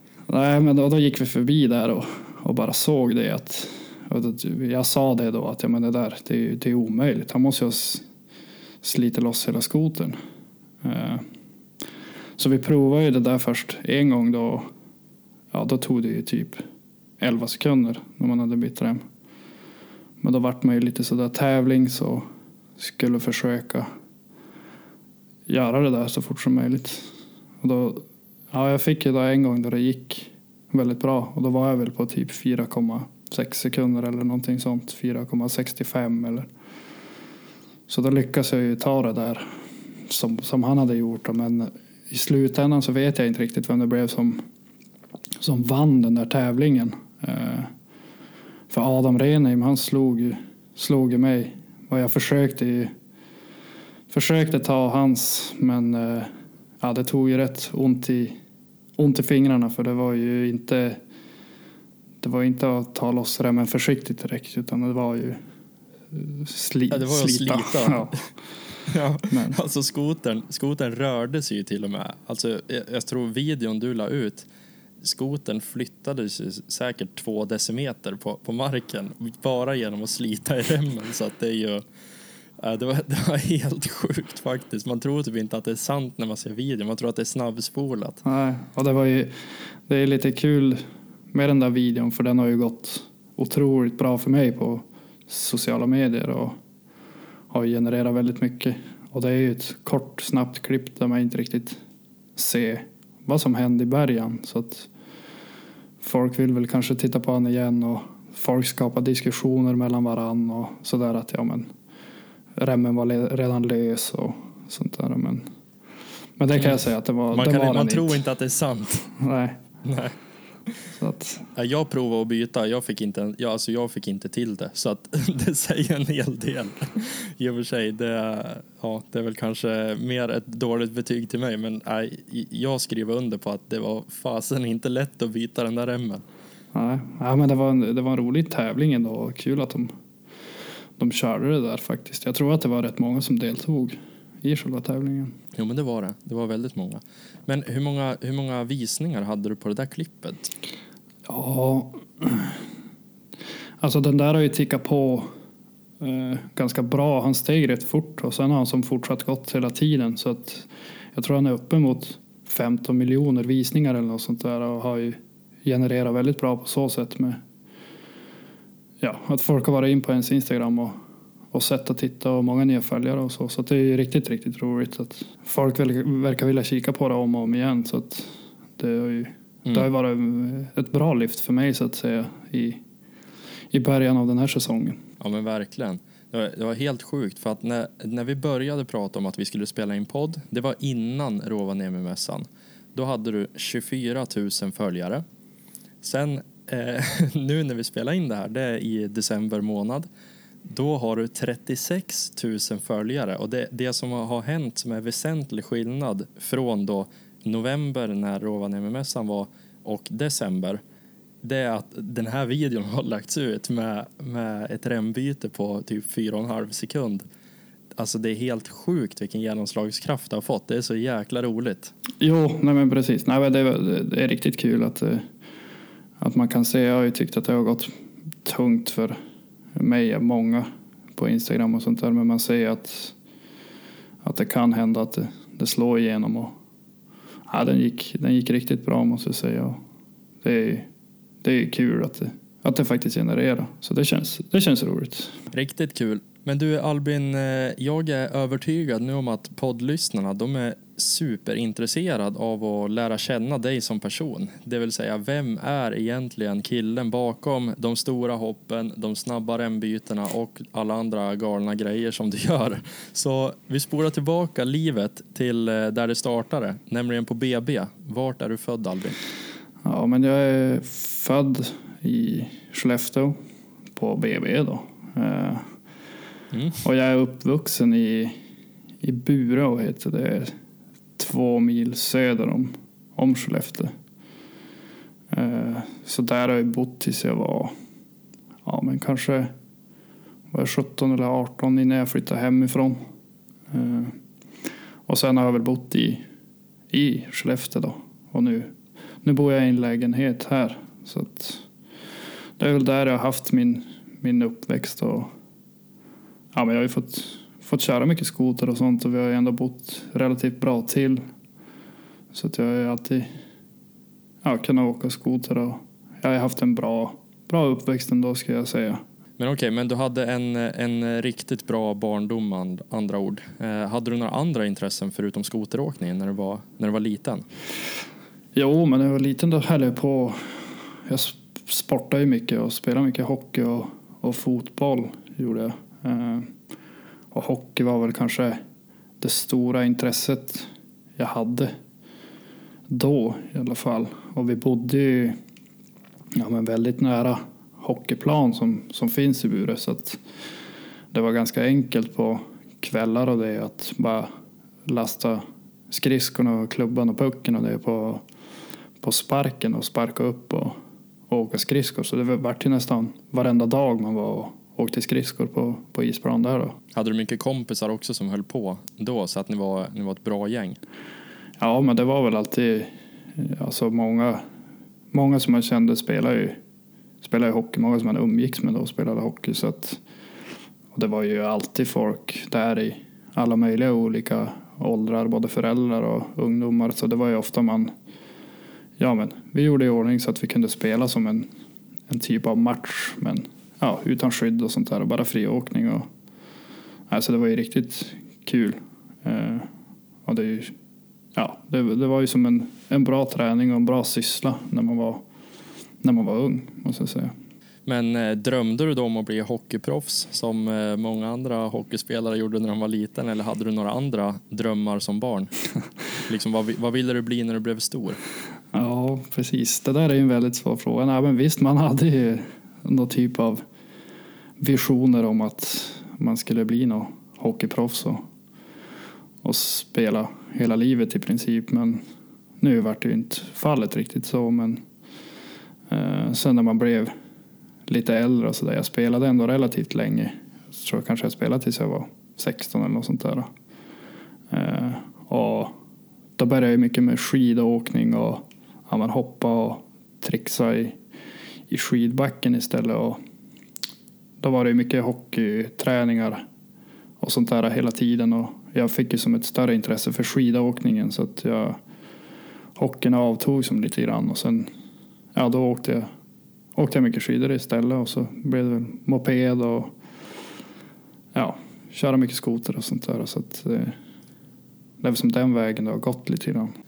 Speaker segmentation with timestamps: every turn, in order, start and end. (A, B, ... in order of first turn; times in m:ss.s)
0:00.3-0:08.0 A
0:08.8-0:10.2 A
0:10.8-0:11.2 A
0:12.4-0:14.7 A
0:15.5-0:16.6 A
0:17.2-0:19.0 A
0:20.2-0:22.2 A
0:22.8-0:23.9 A
0:25.5-0:36.5 A
0:37.9-0:39.4 A
0:40.0-0:44.4 A
0:45.4-0:47.7 A
0:48.7-0:52.9 A
0:54.1-0:58.4 A
0:59.0-1:01.0 A
1:02.2-1:05.4 A
1:06.1-1:08.2 A
1:06.9-1:08.3 B
1:08.9-1:14.5 B
1:09.3-1:09.6 A
1:15.0-1:21.8 B
1:22.6-1:28.2 B
1:28.2-1:36.6 A
1:37.5-1:41.8 A
1:42.4-1:44.9 A
1:46.0-1:51.7 A
1:52.6-1:55.4 A
1:56.4-1:58.2 A
1:57.3-1:59.1 B
1:59.2-1:59.6 A
1:59.8-2:00.1 B
2:00.9-2:01.5 A
2:01.5-2:16.2 B
2:16.7-2:19.9 A
2:21.0-2:25.3 A
2:25.6-2:30.5 B
2:31.2-2:32.6 A
2:33.8-2:35.3 A
2:36.0-2:47.4 A
2:49.0-2:51.0 A
2:51.5-3:02.8 A
3:03.7-3:05.0 A
3:05.2-3:15.2 B
3:16.0-3:20.1 B
3:20.7-3:30.8 B
3:31.4-3:37.2 B
3:38.0-3:41.9 B
3:42.2-3:45.3 A
3:46.2-3:47.9 A
3:48.4-3:49.2 A
3:49.7-3:53.1 A
3:54.2-3:56.5 A
3:57.5-3:59.8 A
4:00.4-4:00.9 A
4:01.4-4:05.4 A
4:05.5-4:29.2 B
4:29.8-4:33.4 A
4:33.9-4:35.7 A
4:36.5-4:36.8 B
4:36.8-4:38.3 A
4:39.0-4:40.5 A
4:41.2-4:43.9 A
4:45.3-4:47.7 A
4:48.6-4:49.5 A
4:50.5-4:53.0 A
4:53.7-4:54.2 A
4:55.1-4:56.2 A
4:56.9-5:01.6 A
5:02.6-5:05.3 A
5:06.5-5:11.2 A
5:12.3-5:13.3 A
5:14.4-5:19.0 A
5:19.4-5:27.4 B
5:28.5-5:36.5 A
5:37.3-5:38.6 A
5:39.2-5:41.7 A
5:42.9-5:45.4 A
5:46.3-5:50.2 A
5:51.1-5:54.3 A
5:54.8-5:58.2 A
5:59.0-6:00.7 A
6:01.3-6:06.8 A
6:06.9-6:10.8 B
6:11.6-6:14.4 A
6:15.1-6:16.6 A
6:17.2-6:20.0 A
6:20.9-6:27.9 A
6:29.0-6:31.5 A
6:32.1-6:36.1 A
6:37.1-6:39.7 A
6:40.2-6:40.7 A
6:41.3-6:45.2 A
6:46.0-6:47.3 A
6:47.8-6:55.5 B
6:56.2-6:58.2 B
6:58.7-7:03.6 A
7:04.6-7:08.2 A
7:09.4-7:12.0 A
7:12.6-7:14.8 A
7:15.9-7:17.1 A
7:17.9-7:23.5 A
7:24.5-7:25.7 A
7:26.4-7:31.0 A
7:31.7-7:33.2 A
7:34.4-7:36.4 A
7:37.2-7:41.8 A
7:42.8-7:44.7 A
7:45.3-7:46.1 A
7:46.8-7:49.9 A
7:51.3-7:54.0 A
7:55.0-7:56.7 A